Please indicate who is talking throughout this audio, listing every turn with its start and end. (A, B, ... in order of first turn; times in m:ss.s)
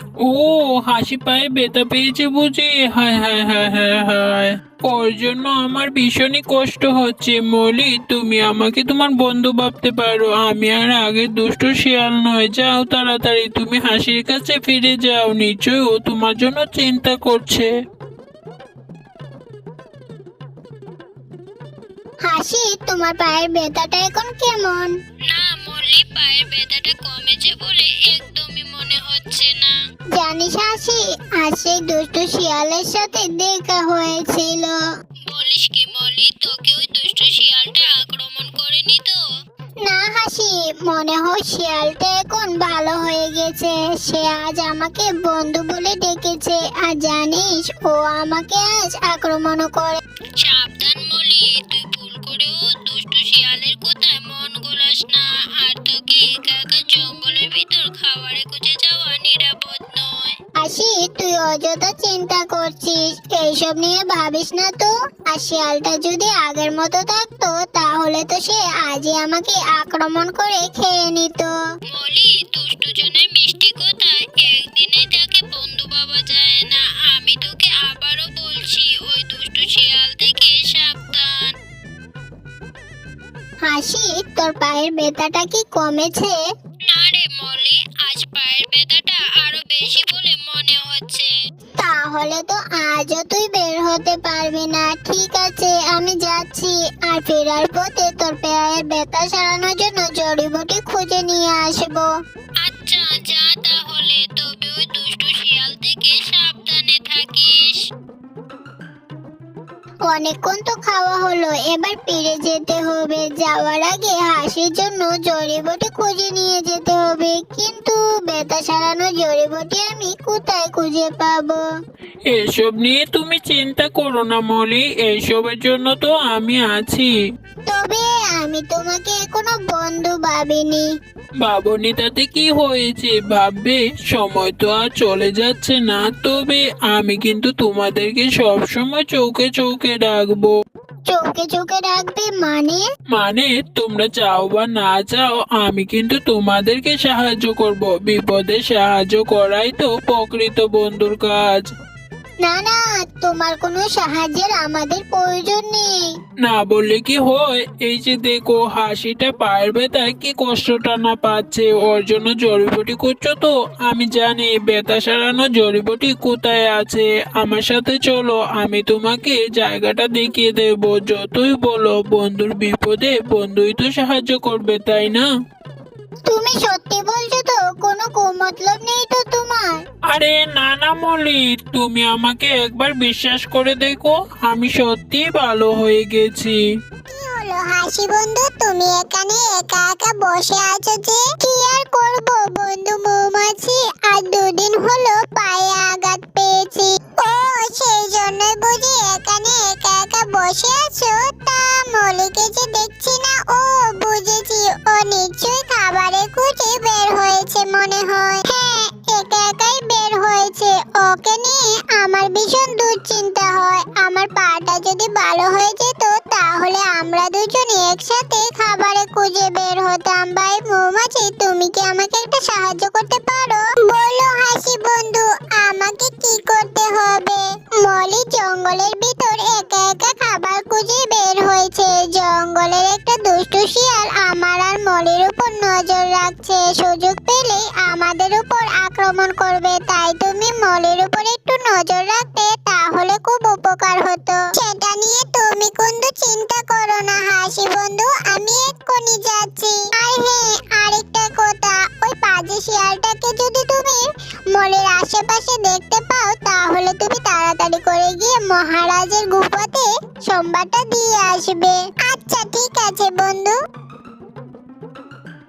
0:00.2-0:17.7 A
0:22.2-0:24.9 B
0:25.3-0:29.8 C
0:30.1-0:34.8 B
0:35.3-0:39.2 C
0:39.8-0:50.0 B
0:50.4-1:00.4 C
1:00.6-1:11.5 B
1:11.9-1:21.5 C
1:23.6-1:26.4 B
1:26.9-1:31.3 C
1:31.8-1:42.1 B
1:42.6-1:47.7 C
1:50.1-2:01.6 B
2:02.3-2:07.1 A
2:07.7-2:10.8 B
2:11.4-2:20.6 A
2:21.1-2:22.8 B
2:23.1-2:31.7 A
2:32.4-2:36.0 B
2:36.4-2:55.3 A
2:56.3-2:59.8 B
3:00.1-3:06.6 A
3:07.1-4:23.5 B